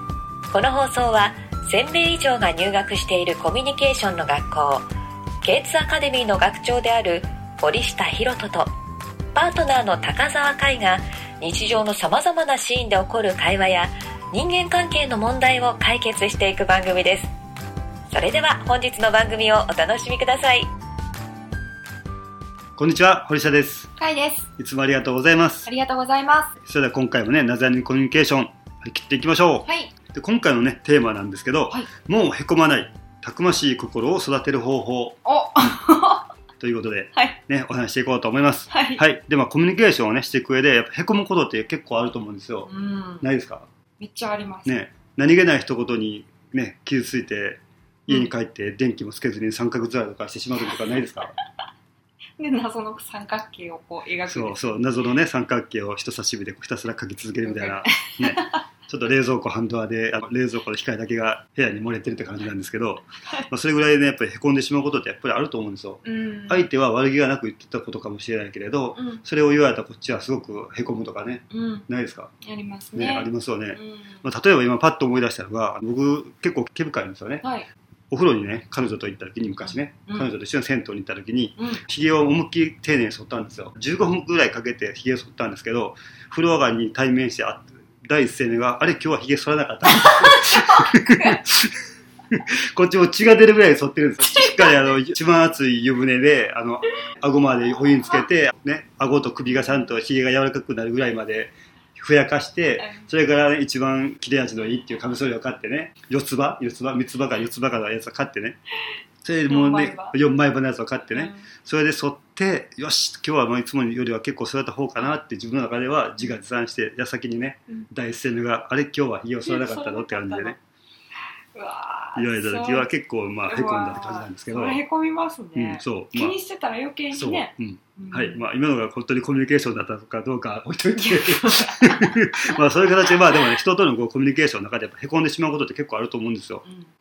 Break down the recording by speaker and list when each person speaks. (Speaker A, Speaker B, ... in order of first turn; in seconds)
Speaker A: 0.5-4.9, 5.4-8.7, 9.3-17.3, 18.1-20.7
Speaker B: 22.8-23.9, 24.6-25.7, 26.6-35.2, 36.6-42.7, 43.2-43.7, 44.7-51.3, 54.3-72.3, 72.9-77.4, 78.1-91.8, 92.3-108.6, 109.2-120.6, 122.2-124.8, 125.5-126.4, 127.1-136.6
Speaker C: 24.0-24.5, 25.6-26.5, 29.7-29.9, 35.2-36.3, 38.7-39.0, 42.7-43.3, 44.0-44.7, 52.4-54.9, 57.4-58.6, 66.0-66.7, 68.9-69.2, 71.5-71.8, 72.4-74.2, 77.4-77.7, 79.6-80.3, 81.6-81.8, 90.0-91.4, 94.2-94.8, 102.8-103.0, 109.5-110.2, 111.1-111.5, 119.4-120.6, 121.5-122.9, 123.5-128.4, 131.0-133.3